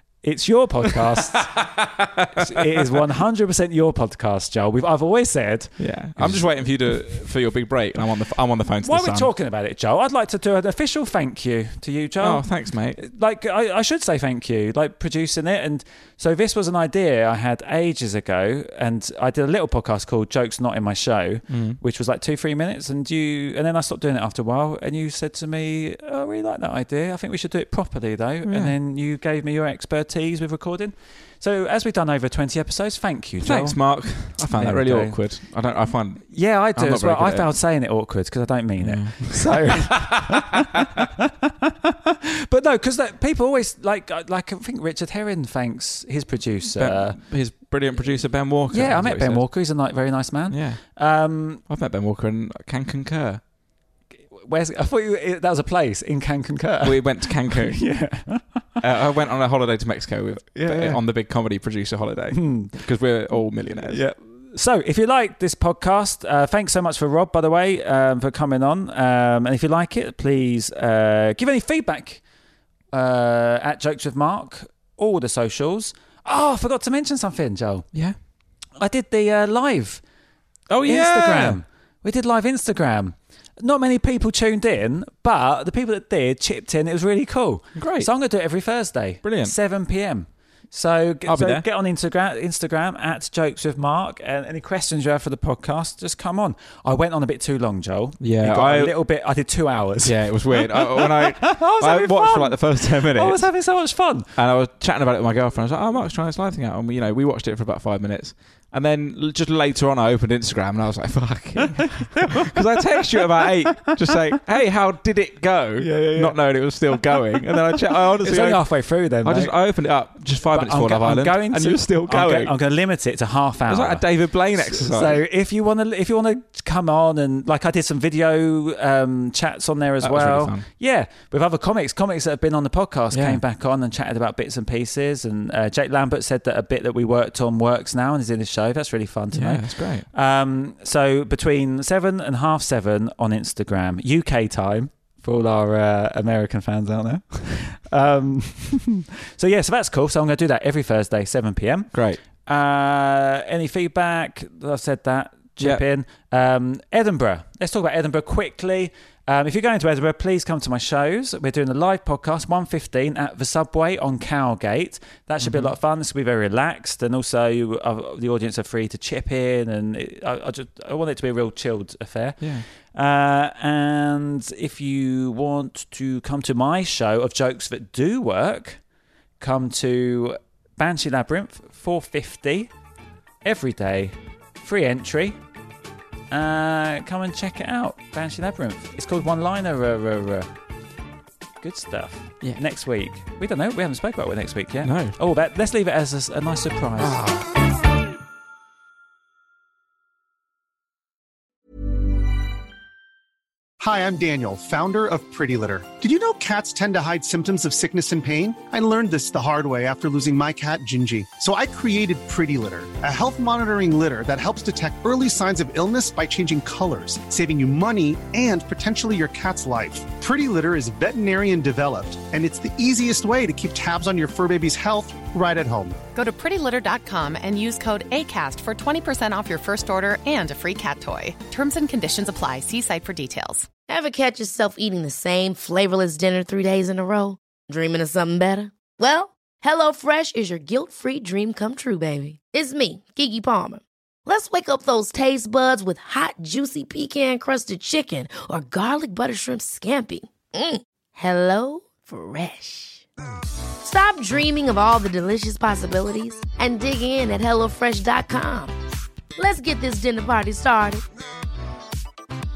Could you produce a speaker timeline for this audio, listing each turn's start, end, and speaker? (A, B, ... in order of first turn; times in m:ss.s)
0:00.2-0:01.6 A
0:01.0-0:02.4 B
0:02.3-0:07.2 A
0:05.8-0:09.3 B
0:08.8-0:35.2 A
0:12.2-0:13.0 B
0:21.5-0:21.8 B
0:28.4-0:28.8 B
0:33.4-0:37.5 B
0:36.3-0:47.2 A
0:38.8-0:40.1 B
0:46.8-0:49.5 B
0:48.7-0:51.6 A
0:50.5-0:50.8 B
0:51.7-0:53.4 B
0:54.2-0:58.7 A
0:56.8-0:58.1 B
0:58.8-1:04.0 B
1:00.5-1:01.0 A
1:02.3-1:02.8 A
1:03.9-1:12.2 A
1:12.9-1:18.0 A
1:17.9-1:18.2 B
1:18.7-1:20.0 A
1:20.7-1:21.6 B
1:20.8-1:44.3 A
1:27.8-1:28.1 B
1:29.2-1:29.6 B
1:31.2-1:31.7 B
1:38.2-1:39.0 B
1:40.0-2:02.6 B
1:51.8-1:52.3 A
1:53.2-1:54.0 A
1:55.8-1:59.6 A
2:00.4-2:58.8 A
2:03.7-2:05.2 B
2:10.0-2:10.7 B
2:13.1-2:13.4 B
2:19.3-2:20.1 B
2:31.9-2:32.2 B
2:45.4-2:45.7 B
2:52.4-2:52.7 B
2:59.4-3:02.7 A
3:03.4-3:05.4 A
3:06.3-3:10.5 A
3:11.6-3:17.2 A
3:14.8-3:15.2 B
3:17.0-3:17.4 B
3:23.8-3:46.0 C
3:46.1-3:53.7 D
3:53.9-4:13.1 E
4:13.8-4:18.7 E
4:19.4-4:21.0 E